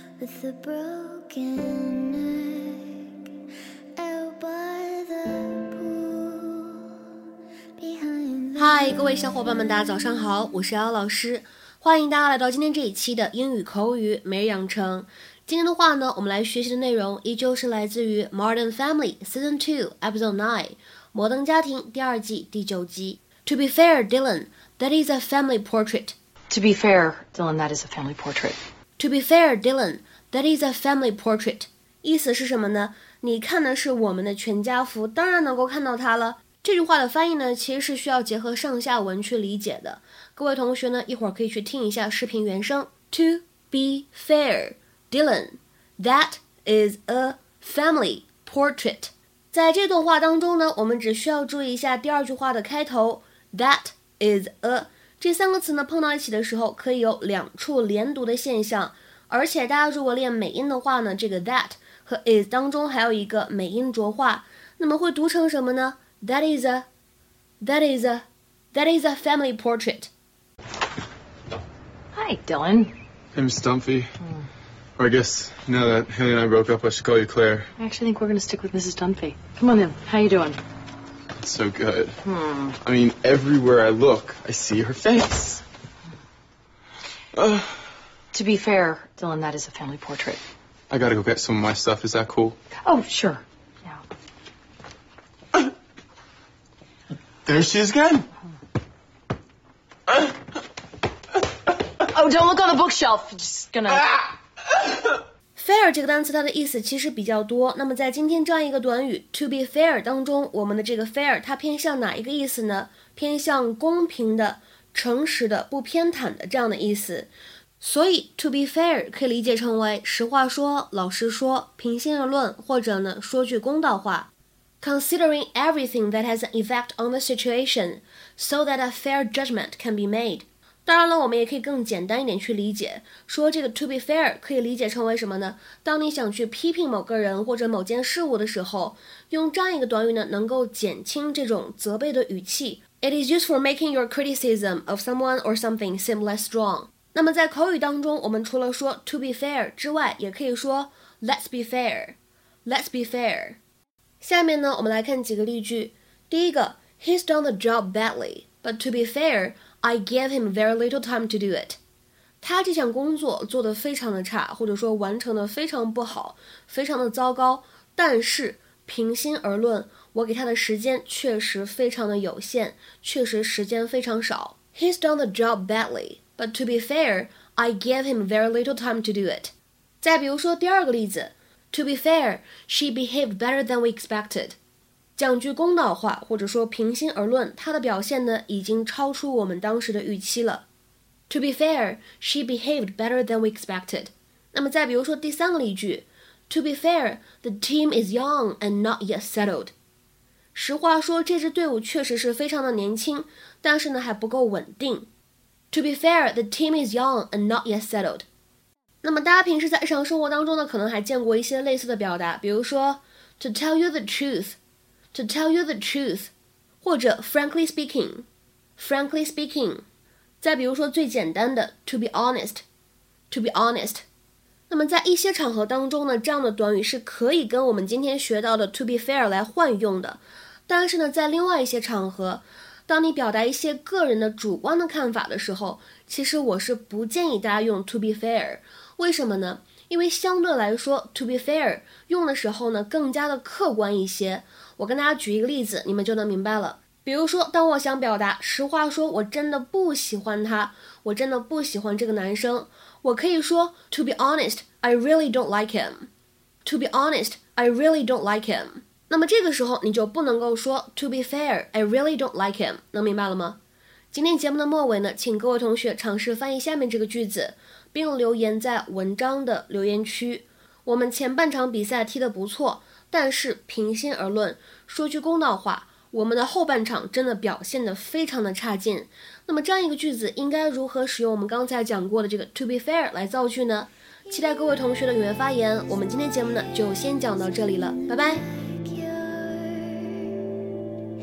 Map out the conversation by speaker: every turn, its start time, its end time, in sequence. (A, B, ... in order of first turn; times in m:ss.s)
0:00.2-0:03.2 A
0:04.0-0:07.2 A
0:07.8-0:09.2 A
0:08.6-0:26.2 B
0:26.5-0:28.6 C
0:29.0-1:06.9 B
1:07.6-1:10.1 B
1:12.1-1:12.9 C
1:13.3-1:14.1 D
1:15.0-1:17.7 D
1:17.8-1:20.6 C
1:21.4-1:22.2 D
1:22.2-1:22.8 C
1:22.8-1:25.6 D
1:27.4-1:27.7 D
1:28.3-1:30.4 C
1:30.9-1:32.6 D
1:32.8-1:34.0 C
1:37.5-1:38.2 D
1:42.1-1:44.2 C
1:45.6-2:04.3 B
2:04.8-2:33.6 B
2:34.2-2:41.8 B
2:42.4-3:04.6 B
3:05.2-3:10.7 B
3:11.3-3:19.7 B
3:20.5-3:25.1 B
3:25.7-3:28.2 B
3:29.0-3:34.6 B
3:35.1-3:39.8 B
3:40.4-3:42.6 B
3:43.3-3:44.0 B
3:44.7-4:16.1 B
4:16.6-4:23.6 B
4:24.1-4:48.4 B
4:44.3-4:50.6 A